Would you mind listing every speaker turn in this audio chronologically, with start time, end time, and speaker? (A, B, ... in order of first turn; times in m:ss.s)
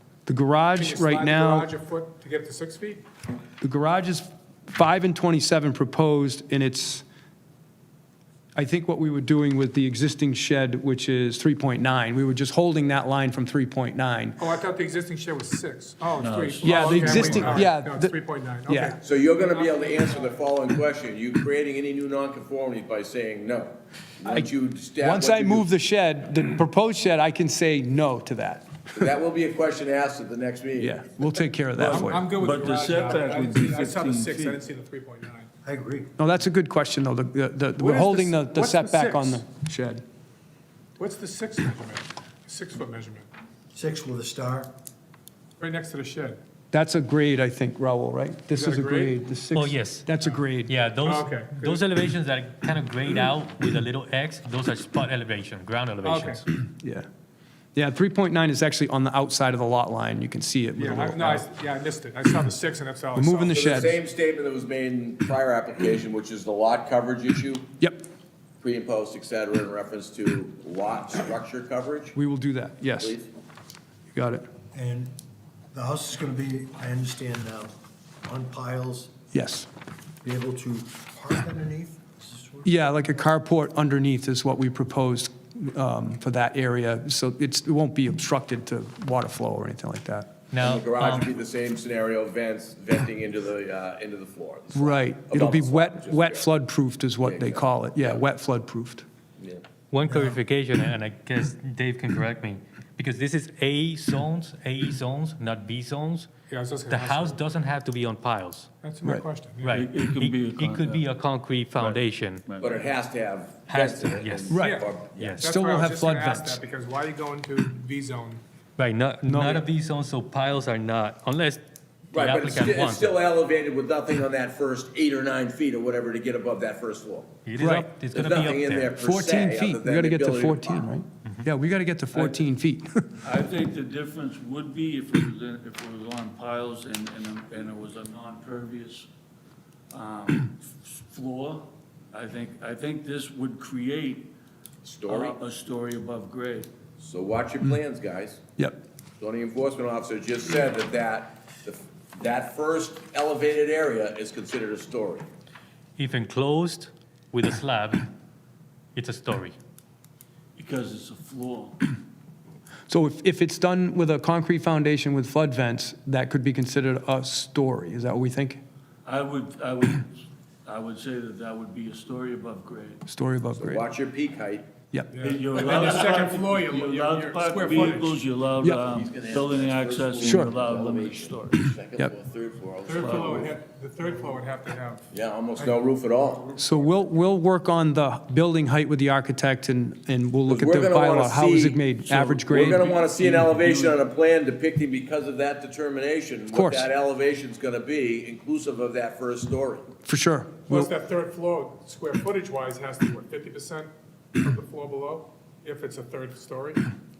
0:00.2-0:01.7 A
0:00.7-0:03.0 B
0:03.6-0:07.0 A
0:08.5-0:14.4 A
0:14.4-0:20.3 B
0:16.1-0:17.7 C
0:16.6-0:19.0 A
0:19.0-0:25.7 D
0:24.3-0:29.1 A
0:29.0-0:31.0 D
0:30.8-0:32.3 A
0:31.8-0:34.6 C
0:31.9-0:35.5 B
0:35.6-0:36.1 E
0:36.2-0:40.0 A
0:37.8-0:39.4 B
0:41.0-0:43.3 B
0:43.7-0:44.7 E
0:45.6-0:46.4 B
0:46.7-0:50.7 A
0:48.5-0:49.1 B
0:49.5-0:50.1 F
0:50.6-0:56.5 F
0:51.0-0:51.8 B
0:56.0-0:56.4 B
0:56.6-0:57.0 A
0:57.7-1:01.4 A
1:00.8-1:03.8 B
1:03.1-1:04.0 A
1:03.5-1:07.7 D
1:08.6-1:12.2 D
1:12.1-1:13.2 A
1:13.0-1:13.3 D
1:14.1-1:14.5 A
1:14.7-1:15.1 E
1:15.7-1:19.1 E
1:19.3-1:19.7 A
1:20.2-1:23.0 E
1:22.6-1:30.3 A
1:30.5-1:31.3 F
1:30.6-1:36.4 D
1:34.7-1:39.0 A
1:37.2-1:38.2 D
1:39.9-1:46.3 F
1:46.5-1:47.4 B
1:46.9-1:48.7 F
1:48.8-1:49.8 B
1:49.6-1:52.4 F
1:49.7-1:51.0 C
1:51.8-1:52.9 C
1:52.6-1:55.4 D
1:53.7-1:54.5 F
1:54.5-1:54.8 A
1:54.5-1:54.8 B
1:55.2-1:55.4 F
1:55.4-1:58.4 B
1:55.4-1:56.6 A
1:58.8-2:01.6 F
1:59.2-1:59.6 A
2:02.1-2:03.1 F
2:02.1-2:07.3 D
2:07.4-2:08.9 F
2:07.6-2:07.9 A
2:08.1-2:10.9 D
2:09.0-2:13.1 A
2:13.2-2:19.1 C
2:19.9-2:24.3 C
2:24.8-2:25.4 D
2:25.1-2:26.7 C
2:27.0-2:28.4 D
2:29.2-2:35.3 D
2:36.0-2:38.1 F
2:38.9-2:39.5 F
2:40.6-2:41.8 C
2:42.9-2:48.6 A
2:49.0-2:53.0 C
2:53.1-2:53.8 A
2:53.6-2:54.7 D
2:55.1-2:58.2 B
2:55.2-3:01.7 C
2:58.8-3:03.5 D
3:00.2-3:00.5 A
3:02.8-3:05.0 B
3:03.0-3:03.5 C
3:05.1-3:06.6 D
3:06.6-3:12.9 A
3:10.5-3:19.8 D
3:12.7-3:14.0 C
3:16.5-3:16.9 A
3:20.0-3:20.9 A
3:20.7-3:26.8 B